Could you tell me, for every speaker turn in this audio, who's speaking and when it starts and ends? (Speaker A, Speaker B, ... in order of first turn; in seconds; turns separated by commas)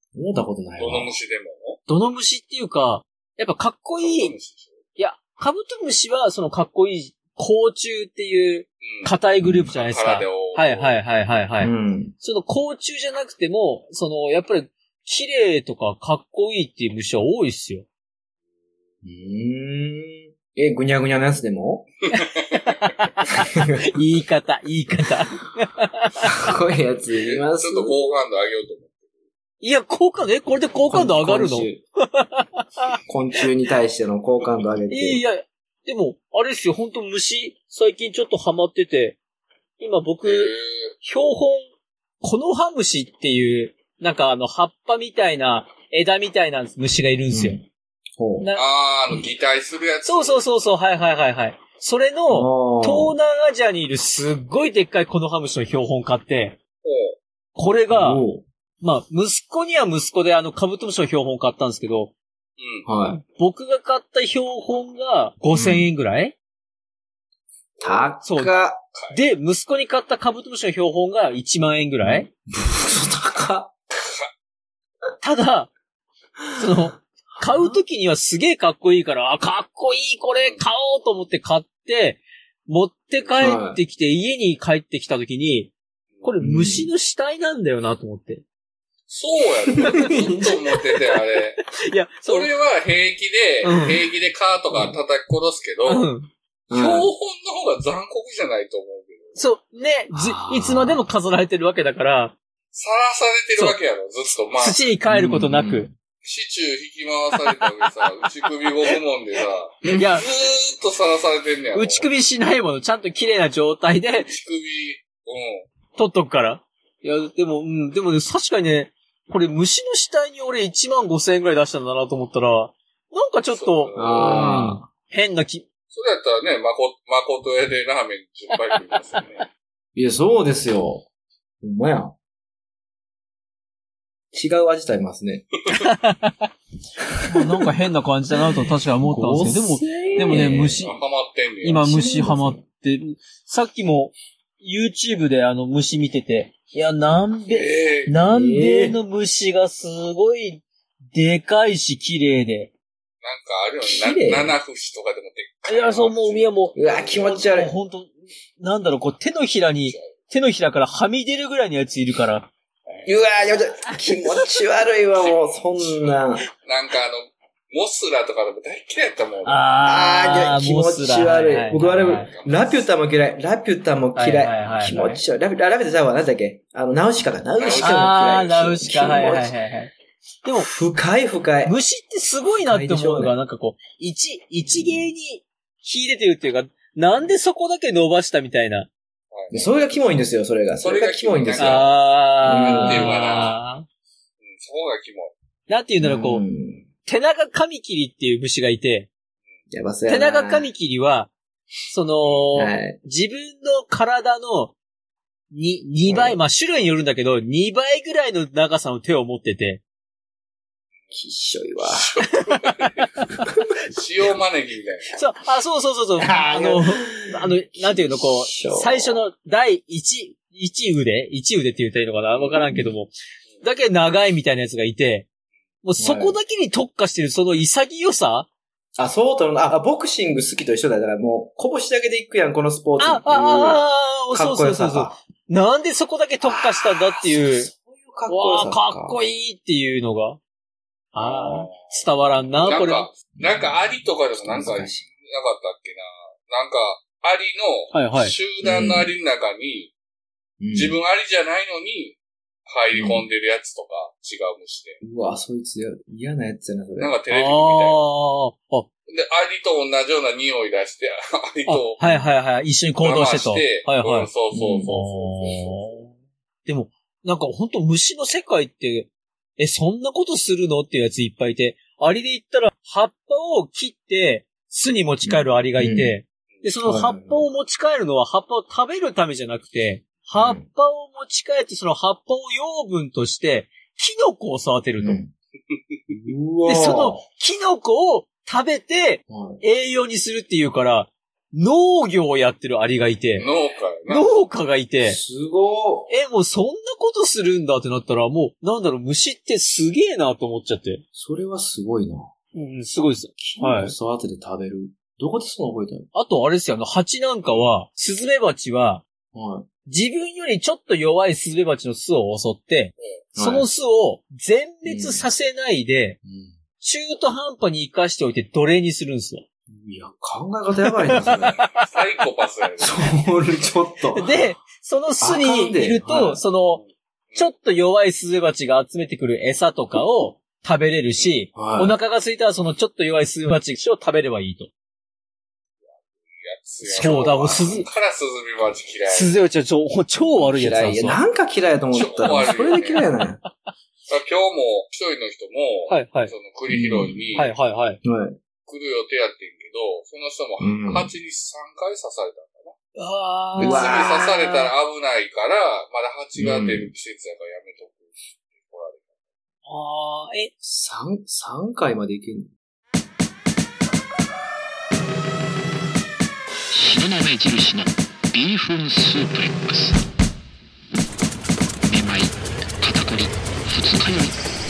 Speaker A: 0.1-1.2, Speaker B: 0.8-1.8, Speaker C: 1.9-4.3, Speaker B: 4.0-4.8, Speaker C: 5.0-17.9, Speaker B: 8.8-9.1, Speaker A: 9.4-9.7, Speaker B: 9.7-11.0, Speaker A: 11.6-12.2, Speaker A: 19.0-21.9, Speaker B: 22.1-22.7, Speaker C: 22.7-26.4, Speaker A: 23.5-23.9, Speaker A: 26.3-27.9, Speaker B: 27.2-29.0, Speaker C: 29.6-33.0, Speaker A: 30.9-31.8, Speaker A: 33.1-35.2, Speaker C: 34.9-39.2, Speaker C: 39.8-41.7, Speaker B: 40.2-41.0, Speaker C: 42.2-47.6, Speaker A: 47.3-47.6, Speaker A: 48.2-48.5, Speaker B: 48.6-50.4, Speaker C: 50.1-56.6, Speaker A: 52.3-53.1, Speaker B: 56.8-57.2, Speaker C: 57.6-58.2, Speaker A: 57.9-58.4, Speaker C: 58.8-62.1, Speaker B: 62.6-62.9, Speaker A: 62.9-63.2, Speaker C: 63.1-66.3, Speaker A: 65.5-65.9, Speaker B: 67.8-68.2, Speaker A: 67.8-68.8, Speaker C: 68.2-72.3, Speaker B: 68.9-69.2, Speaker A: 72.0-73.7, Speaker B: 74.0-74.3, Speaker C: 75.2-75.7, Speaker A: 76.6-76.8, Speaker C: 76.6-88.4, Speaker A: 77.4-77.8, Speaker A: 83.4-83.8, Speaker A: 86.4-86.9, Speaker B: 89.1-91.6, Speaker C: 89.8-90.5, Speaker A: 89.8-90.6, Speaker C: 91.6-92.5, Speaker B: 92.3-96.1, Speaker C: 93.6-94.0, Speaker C: 95.8-96.3, Speaker A: 96.7-97.1, Speaker B: 96.7-99.4, Speaker C: 99.4-102.4, Speaker A: 100.1-101.0, Speaker B: 102.7-104.8, Speaker C: 104.6-105.9, Speaker A: 105.1-105.9, Speaker B: 106.2-112.1, Speaker C: 109.9-110.3, Speaker C: 111.7-114.3, Speaker B: 114.3-115.7, Speaker C: 116.0-125.7, Speaker B: 123.5-124.6, Speaker A: 124.0-124.9, Speaker B: 125.9-129.5, Speaker C: 128.7-129.3, Speaker A: 129.9-131.1, Speaker A: 131.6-132.2, Speaker A: 134.3-135.5, Speaker C: 135.7-136.5, Speaker A: 137.1-137.6, Speaker C: 137.3-141.0, Speaker A: 139.0-140.8, Speaker B: 140.1-141.9, Speaker C: 141.6-152.7, Speaker A: 141.8-142.6, Speaker B: 147.5-148.2, Speaker A: 148.3-149.0, Speaker B: 153.2-157.6, Speaker A: 153.8-154.6, Speaker C: 155.7-162.5, Speaker A: 156.8-157.7, Speaker B: 159.9-160.1, Speaker A: 163.1-166.4, Speaker B: 165.2-169.6, Speaker C: 169.4-172.3, Speaker A: 169.8-179.5, Speaker B: 171.8-172.8, Speaker C: 174.2-175.2, Speaker B: 177.6-178.1, Speaker C: 177.8-179.9, Speaker C: 180.4-180.7, Speaker A: 180.6-181.8, Speaker C: 181.7-188.9, Speaker A: 182.7-183.3, Speaker A: 184.7-185.1, Speaker B: 189.3-189.7, Speaker A: 189.5-191.9, Speaker B: 190.8-192.0, Speaker C: 191.6-193.9, Speaker A: 192.4-193.4, Speaker B: 192.8-193.6, Speaker B: 194.4-195.3, Speaker C: 195.7-196.4, Speaker A: 196.0-196.9, Speaker C: 197.1-199.1, Speaker A: 199.7-200.7, Speaker C: 200.1-201.3, Speaker C: 201.9-204.8, Speaker A: 202.6-203.0, Speaker C: 205.5-209.8, Speaker A: 206.1-206.4, Speaker A: 211.1-212.1, Speaker B: 211.9-213.1, Speaker C: 212.6-213.4, Speaker B: 213.9-215.1, Speaker C: 215.1-225.3, Speaker A: 216.2-219.2, Speaker A: 222.6-222.9, Speaker C: 225.8-228.5, Speaker A: 226.0-226.4, Speaker A: 229.0-235.2, Speaker C: 233.0-237.7, Speaker A: 236.4-239.2, Speaker C: 238.3-240.4, Speaker C: 241.1-243.1, Speaker B: 241.2-242.0, Speaker B: 242.6-249.9, Speaker A: 244.4-245.1, Speaker C: 247.9-248.3, Speaker A: 248.6-249.1, Speaker A: 250.6-251.0, Speaker B: 250.7-255.0, Speaker A: 252.9-253.3, Speaker A: 255.0-257.2, Speaker B: 257.0-258.1, Speaker C: 257.3-258.9, Speaker B: 259.1-262.1, Speaker C: 261.7-264.3, Speaker B: 263.0-266.0, Speaker A: 264.5-264.9, Speaker C: 264.9-266.1, Speaker C: 266.7-285.2, Speaker A: 275.2-276.1, Speaker A: 276.8-277.5, Speaker A: 280.4-280.7, Speaker A: 285.0-285.3, Speaker B: 285.7-286.0, Speaker A: 286.1-287.2, Speaker C: 286.6-293.5, Speaker A: 289.3-289.6, Speaker B: 293.4-294.5, Speaker C: 294.1-295.2, Speaker A: 295.0-296.1, Speaker C: 296.1-301.0, Speaker A: 301.1-302.3, Speaker C: 302.5-303.9, Speaker A: 303.4-306.1, Speaker C: 306.1-309.0, Speaker A: 309.3-309.7, Speaker C: 309.9-316.2, Speaker B: 313.0-313.2, Speaker A: 313.4-313.7, Speaker A: 314.9-315.2, Speaker A: 316.2-316.6, Speaker C: 316.8-319.4, Speaker A: 319.7-321.6, Speaker C: 320.8-321.9, Speaker B: 321.3-323.2, Speaker A: 322.8-324.3, Speaker C: 324.1-326.8, Speaker A: 325.2-326.4, Speaker B: 326.8-327.5, Speaker C: 327.4-334.7, Speaker B: 331.2-331.5, Speaker A: 331.6-331.9, Speaker B: 336.4-339.4, Speaker C: 336.9-337.9, Speaker C: 339.1-341.2, Speaker A: 340.5-343.4, Speaker B: 341.9-343.1, Speaker C: 342.3-343.5, Speaker B: 344.1-347.5, Speaker C: 345.9-346.3, Speaker A: 346.7-347.2, Speaker C: 347.4-348.0, Speaker A: 348.0-348.4, Speaker B: 348.6-352.7, Speaker A: 350.6-351.1, Speaker C: 353.0-354.7, Speaker A: 353.6-354.3, Speaker B: 353.6-359.1, Speaker A: 356.4-356.9, Speaker C: 359.6-360.5, Speaker A: 360.6-362.5, Speaker D: 366.7-370.0, Speaker D: 371.9-374.4